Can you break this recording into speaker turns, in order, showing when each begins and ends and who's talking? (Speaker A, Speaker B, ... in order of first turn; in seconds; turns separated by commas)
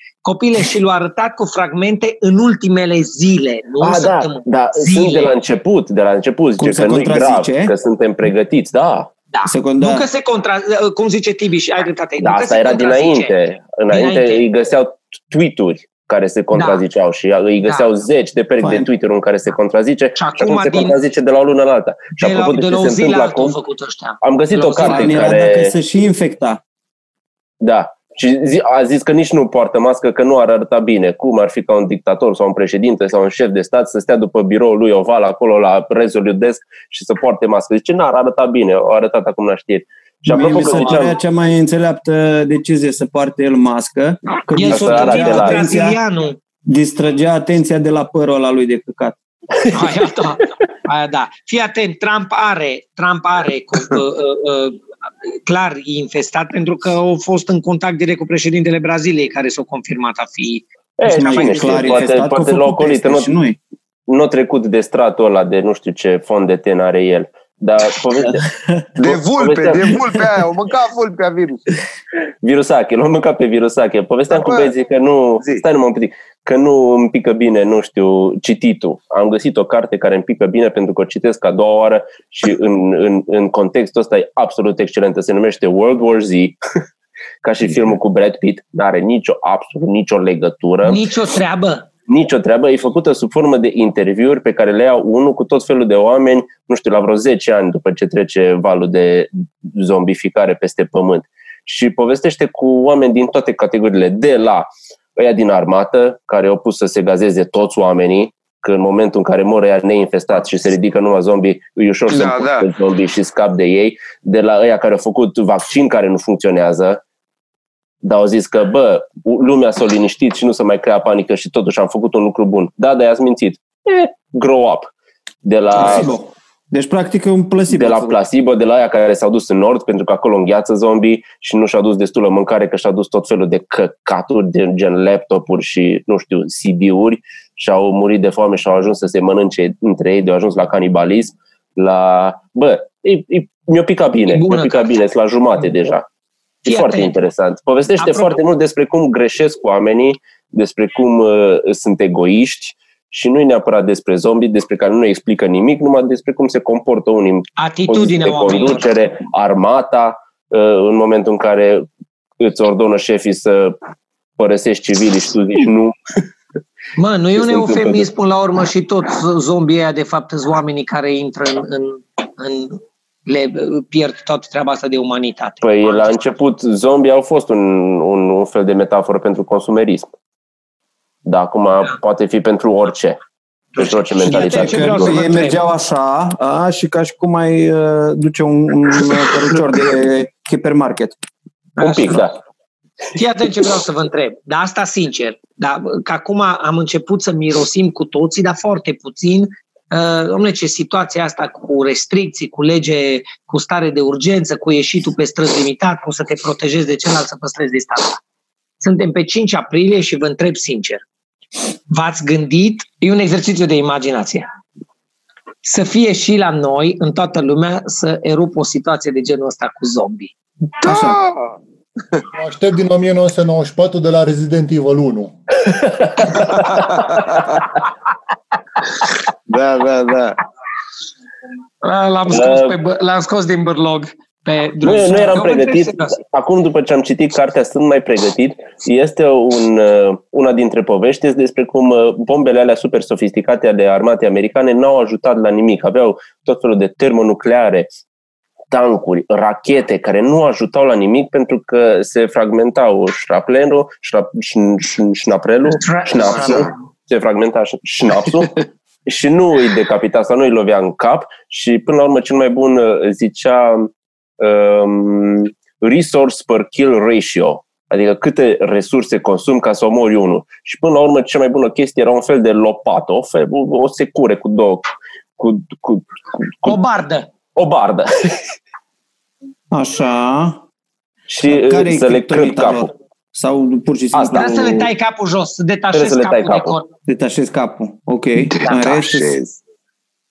Speaker A: 0.2-5.3, Speaker B: 3.8-9.1, Speaker C: 6.6-7.7, Speaker A: 9.3-13.3, Speaker C: 9.4-10.1, Speaker B: 12.2-23.6, Speaker A: 13.9-14.4, Speaker A: 16.6-16.8, Speaker A: 17.6-17.9, Speaker C: 18.6-18.9, Speaker A: 20.2-21.0, Speaker A: 22.2-25.4, Speaker B: 24.2-25.8, Speaker C: 24.9-26.6, Speaker B: 27.6-41.2, Speaker C: 40.3-46.0, Speaker A: 44.5-46.4, Speaker B: 44.7-45.7, Speaker C: 46.7-49.2, Speaker A: 49.7-54.8, Speaker A: 55.5-60.6, Speaker B: 61.0-63.3, Speaker C: 61.0-63.6, Speaker B: 64.1-68.4, Speaker D: 69.0-71.6, Speaker B: 69.0-70.0, Speaker B: 72.4-86.6, Speaker D: 74.3-74.7, Speaker B: 87.4-91.0, Speaker A: 90.8-91.9, Speaker B: 92.1-117.0, Speaker D: 112.1-112.7, Speaker B: 118.0-124.9, Speaker B: 125.5-126.1, Speaker C: 125.7-128.2, Speaker B: 127.7-146.1, Speaker A: 144.3-145.0, Speaker A: 146.7-147.1, Speaker B: 146.7-161.9, Speaker A: 148.0-148.4, Speaker A: 157.6-158.9, Speaker B: 162.4-163.8, Speaker B: 164.4-165.9, Speaker A: 167.0-176.2, Speaker B: 167.3-168.1, Speaker B: 175.6-180.1, Speaker B: 181.3-183.2, Speaker B: 183.8-185.2, Speaker A: 184.2-185.6, Speaker C: 184.2-191.2, Speaker A: 191.8-192.2, Speaker B: 191.8-192.4, Speaker A: 193.2-208.2, Speaker A: 208.8-211.0, Speaker A: 211.9-214.5, Speaker A: 215.6-220.3, Speaker C: 220.8-221.2, Speaker D: 220.8-221.6, Speaker E: 222.4-225.3, Speaker B: 225.7-226.8, Speaker D: 229.5-230.4, Speaker A: 231.8-236.2, Speaker B: 232.3-232.8, Speaker B: 234.8-247.9, Speaker B: 248.7-274.9, Speaker A: 255.8-256.7, Speaker D: 256.3-256.7, Speaker B: 275.4-276.8, Speaker A: 276.6-277.3, Speaker B: 277.6-278.5, Speaker C: 279.7-280.6, Speaker B: 281.3-282.9, Speaker C: 281.4-284.6, Speaker B: 284.1-284.9, Speaker A: 284.3-286.9, Speaker B: 285.9-286.8, Speaker C: 287.1-289.4, Speaker D: 288.5-289.6